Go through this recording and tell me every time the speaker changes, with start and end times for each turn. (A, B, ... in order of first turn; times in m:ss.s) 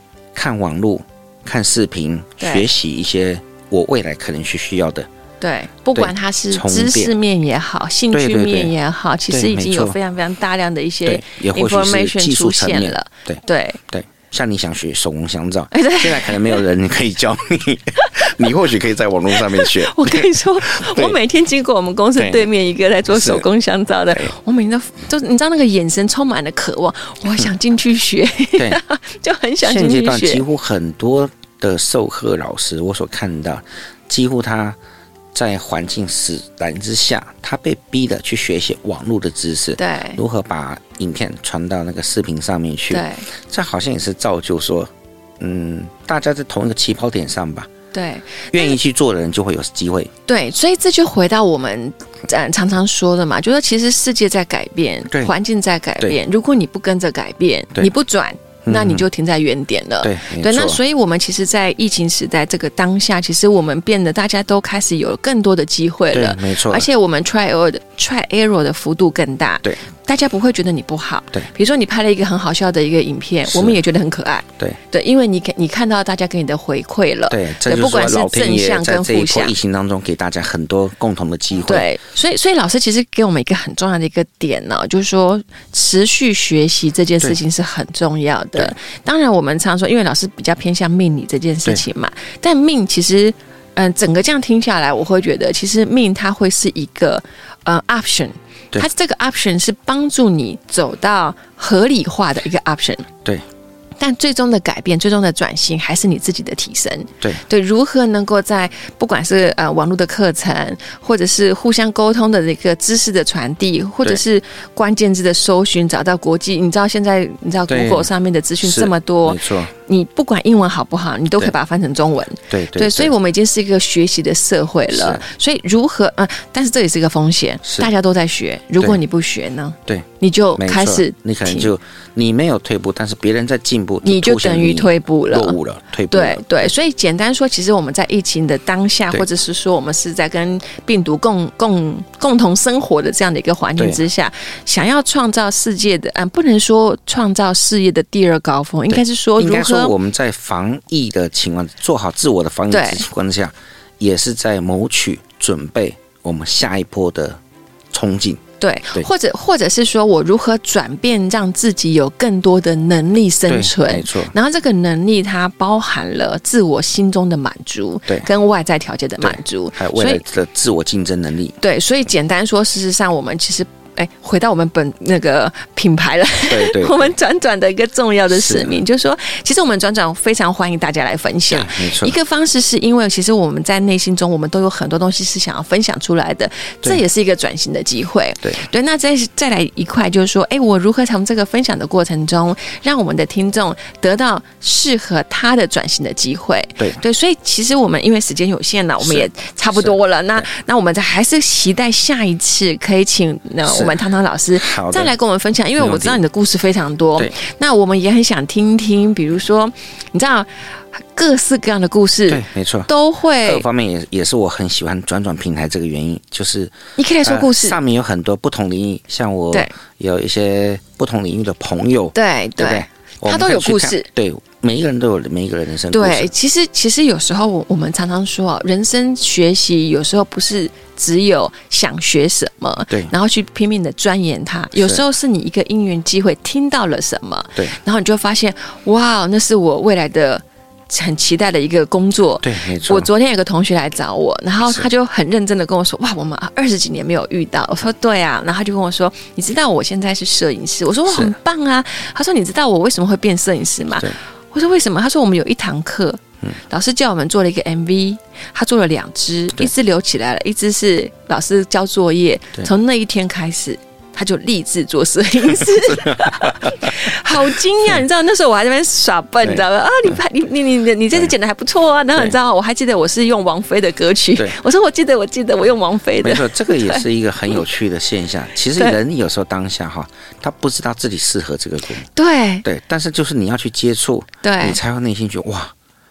0:00.3-0:05.1 A
0:02.4-0:02.7 B
0:05.4-0:13.8 B
0:06.0-0:07.1 A
0:08.1-0:08.7 A
0:09.3-0:10.0 A
0:11.1-0:21.2 A
0:15.7-0:16.6 B
0:19.3-0:30.4 B
0:22.2-0:22.5 A
0:23.1-0:23.4 A
0:29.6-0:34.8 A
0:35.3-0:47.7 A
0:39.8-0:40.2 B
0:42.9-0:43.3 B
0:47.9-0:48.8 B
0:48.5-0:50.1 A
0:50.3-1:19.5 B
0:58.7-0:59.0 A
1:00.0-1:00.8 A
1:06.1-1:06.9 A
1:13.5-1:13.8 A
1:17.3-1:21.9 A
1:21.6-1:43.1 B
1:44.0-2:11.7 B
1:57.7-1:58.1 A
1:58.6-1:59.7 A
2:02.5-2:03.1 A
2:04.9-2:05.2 A
2:07.6-2:07.9 A
2:10.6-2:16.7 A
2:14.0-2:15.6 B
2:16.1-2:30.0 B
2:23.8-2:24.0 A
2:28.9-2:37.4 A
2:32.7-2:33.0 B
2:37.9-2:38.4 A
2:38.6-2:50.2 B
2:43.5-2:44.3 A
2:49.2-2:51.6 A
2:51.6-3:33.6 B
2:56.5-2:57.1 A
2:58.3-2:58.8 A
3:01.5-3:02.2 A
3:19.0-3:20.4 A
3:23.6-3:24.0 A
3:24.5-3:25.1 A
3:25.8-3:26.2 A
3:32.3-3:32.9 A
3:33.4-3:46.3 A
3:37.0-3:37.8 B
3:42.1-3:44.1 B
3:45.9-4:37.6 B
3:54.8-3:55.0 A
4:02.4-4:03.1 A
4:11.1-4:11.3 A
4:25.8-4:27.1 A
4:29.4-4:30.2 A
4:36.2-4:42.1 A
4:42.2-4:42.7 B
4:42.6-4:45.7 A
4:44.4-4:44.8 B